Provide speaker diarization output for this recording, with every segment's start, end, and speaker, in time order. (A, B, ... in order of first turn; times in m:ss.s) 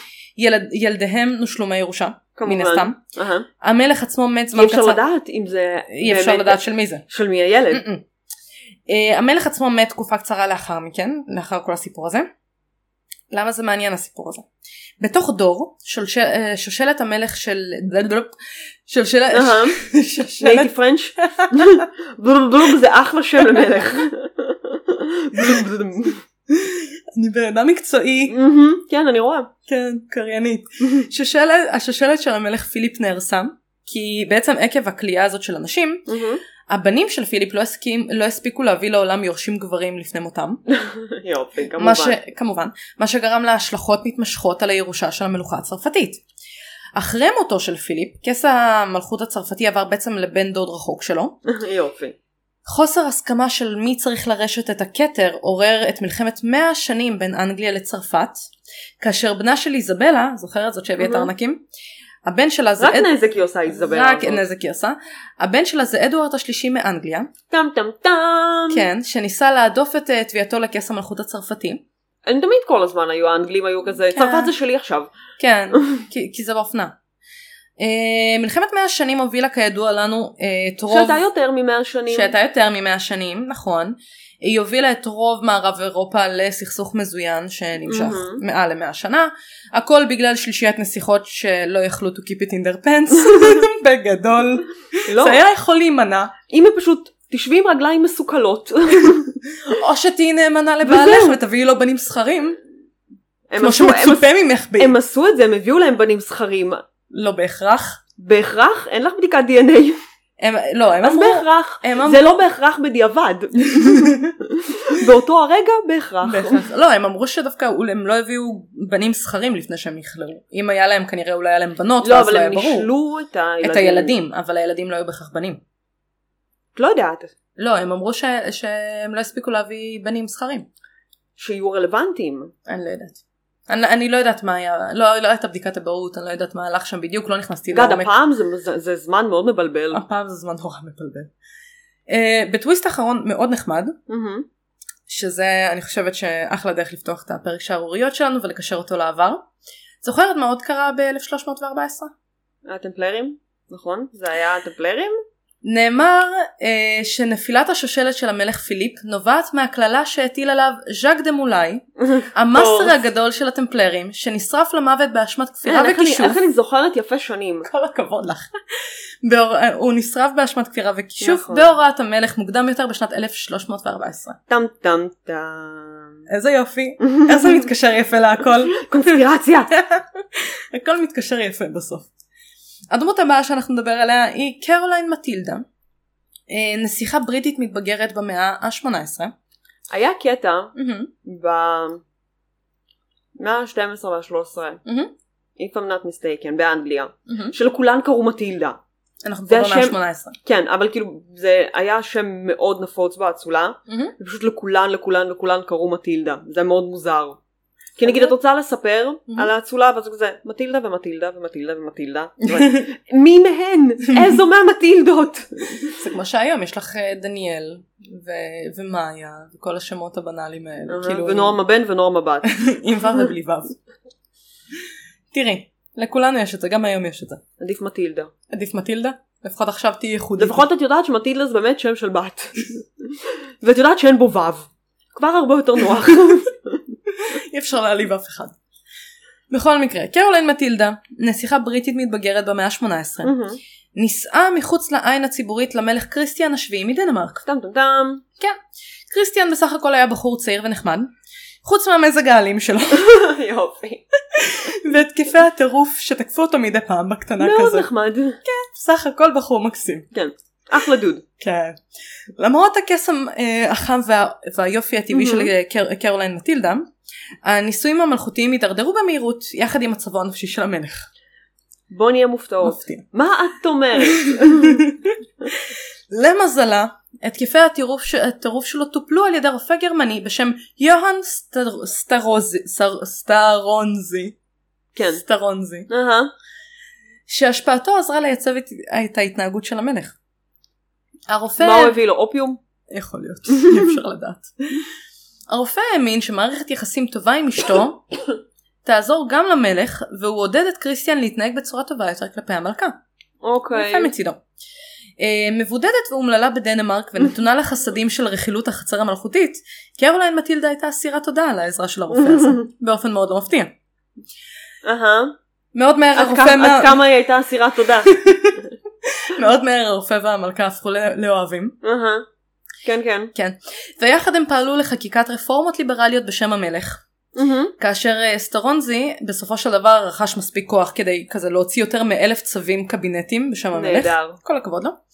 0:00.4-0:03.0 A
0:02.4-0:03.5 B
0:03.6-0:05.0 A
0:04.5-0:07.8 B
0:05.9-0:07.0 A
0:07.7-0:08.0 A
0:08.9-0:12.3 A
0:13.3-0:14.4 A
0:15.0-0:18.3 A
0:18.9-0:21.8 A
0:19.3-0:19.8 B
0:20.4-0:26.2 B
0:25.4-0:25.6 A
0:26.5-0:28.4 A
0:28.3-0:29.5 B
0:29.7-0:36.1 A
0:36.1-0:36.4 B
0:36.7-0:40.6 A
0:40.7-0:42.2 B
0:41.8-0:46.2 A
0:47.0-0:51.4 A
0:51.5-0:52.2 B
0:52.7-0:58.5 A
0:59.0-1:01.6 A
1:01.0-1:01.3 B
1:02.2-1:03.1 A
1:02.8-1:04.4 B
1:03.7-1:07.3 A
1:07.5-1:08.9 B
1:08.7-1:11.8 A
1:12.3-1:15.1 B
1:14.1-1:14.5 A
1:15.4-1:17.0 A
1:15.7-1:16.0 B
1:17.8-1:21.2 A
1:20.9-1:22.3 B
1:22.1-1:36.3 A
1:27.9-1:28.4 B
1:35.1-1:35.4 B
1:36.5-1:39.3 B
1:39.7-1:42.6 A
1:40.8-1:41.4 B
1:43.5-1:46.8 B
1:43.6-1:45.0 A
1:47.1-1:48.0 A
1:48.2-1:50.0 B
1:50.4-1:52.2 A
1:51.0-1:56.6 B
1:53.8-1:54.2 A
1:56.2-2:02.9 A
2:02.0-2:04.2 B
2:03.6-2:05.6 A
2:06.8-2:07.3 B
2:07.6-2:10.7 A
2:11.4-2:12.5 B
2:12.7-2:18.1 A
2:17.7-2:20.0 B
2:19.9-2:21.3 A
2:22.1-2:24.0 A
2:24.1-2:24.5 B
2:25.1-2:29.4 A
2:30.0-2:32.1 A
2:32.7-2:35.1 B
2:35.6-2:46.4 A
2:42.0-2:43.0 B
2:45.6-2:47.7 B
2:47.6-2:48.5 A
2:49.2-2:54.4 A
2:51.2-2:51.7 B
2:54.5-2:56.2 B
2:56.3-2:59.2 A
2:57.0-2:57.6 B
2:58.7-2:59.7 B
2:59.7-3:02.1 A
3:02.9-3:05.6 A
3:06.5-3:09.3 A
3:09.9-3:10.7 B
3:10.8-3:11.1 A
3:11.2-3:12.0 B
3:13.4-3:14.8 B
3:14.9-3:15.1 A
3:15.6-3:18.8 B
3:17.3-3:17.6 A
3:19.2-3:20.4 A
3:19.5-3:27.4 B
3:23.9-3:24.1 A
3:28.0-3:36.0 B
3:28.0-3:28.4 A
3:32.5-3:32.8 A
3:34.1-3:34.4 A
3:36.0-3:41.6 A
3:40.9-3:42.5 B
3:42.5-3:43.8 A
3:45.3-3:47.4 A
3:47.6-3:48.3 B
3:48.5-3:50.6 A
3:50.4-3:56.8 B
3:57.2-3:58.6 A
3:59.5-4:03.3 A
4:03.2-4:03.6 B
4:04.0-4:07.4 A
4:07.4-4:08.2 B
4:09.1-4:11.1 A
4:11.6-4:13.1 A
4:12.9-4:14.0 B
4:14.3-4:17.9 A
4:17.4-4:18.4 B
4:18.4-4:20.1 A
4:20.1-4:21.2 B
4:21.4-4:21.8 A
4:22.4-4:26.9 A
4:25.1-4:25.5 B
4:27.5-4:31.1 A
4:31.9-4:34.9 B
4:32.6-4:33.0 A
4:34.0-4:44.4 A
4:45.0-4:45.2 B
4:45.2-4:45.9 A
4:45.9-4:46.3 B
4:47.3-4:50.2 A
4:51.3-4:52.0 A
4:51.6-4:52.6 B
4:52.9-4:54.8 A
4:53.5-4:53.9 B
4:55.5-4:58.0 A
4:58.8-5:03.0 A
5:03.4-5:04.1 B
5:03.7-5:04.4 A
5:05.2-5:13.8 A
5:12.1-5:12.6 B
5:14.8-5:15.4 B
5:15.7-5:17.0 A
5:16.2-5:18.2 B
5:18.1-5:21.8 A
5:21.8-5:22.2 B
5:22.8-5:23.3 B
5:23.4-5:27.0 A
5:27.4-5:27.7 B
5:27.8-5:35.0 A
5:33.7-5:34.4 B